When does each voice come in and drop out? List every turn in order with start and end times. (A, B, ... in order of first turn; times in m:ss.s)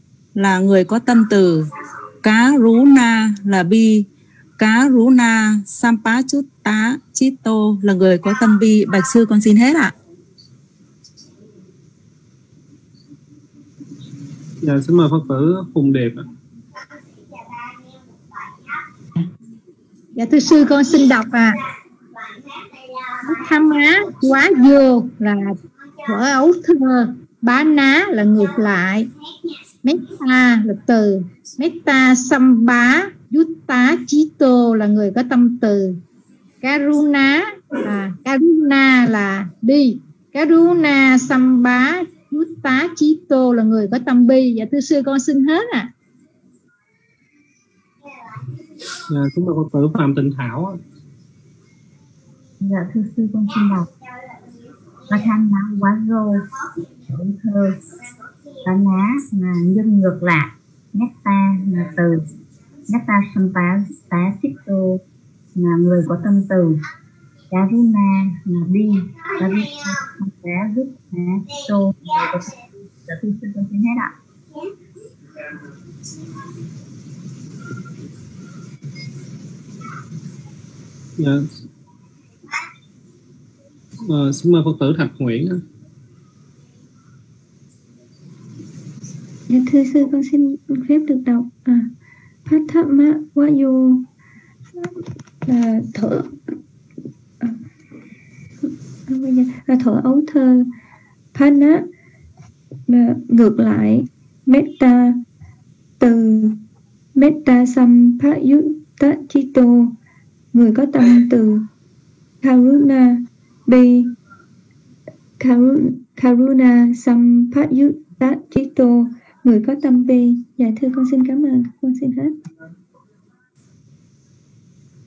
0:00.4-0:01.6 A
0:02.2-0:04.1 A
0:04.6-0:09.9 A
0:14.6-0:16.2 B
0:20.2-0:21.6 C
0:23.2-0:29.1 C
0:29.8-0:36.0 C
0:36.6-0:45.9 C
0:49.1-0:50.8 B
0:52.6-0:53.9 D
0:55.1-0:56.5 D
0:57.0-0:57.8 D
0:58.6-1:02.2 D
1:02.9-1:05.0 D
1:05.6-1:06.8 D
1:07.5-1:14.1 D
1:21.2-1:21.6 B
1:24.0-1:25.6 B
1:29.5-1:31.9 E
1:32.4-1:34.1 E
1:35.5-1:36.4 E
1:39.1-1:40.7 E
1:41.3-1:41.9 E
1:42.9-1:45.2 E
1:46.0-1:46.6 E
1:47.2-1:49.9 E
1:50.5-1:51.7 E
1:52.4-1:54.1 E
1:55.4-2:02.3 E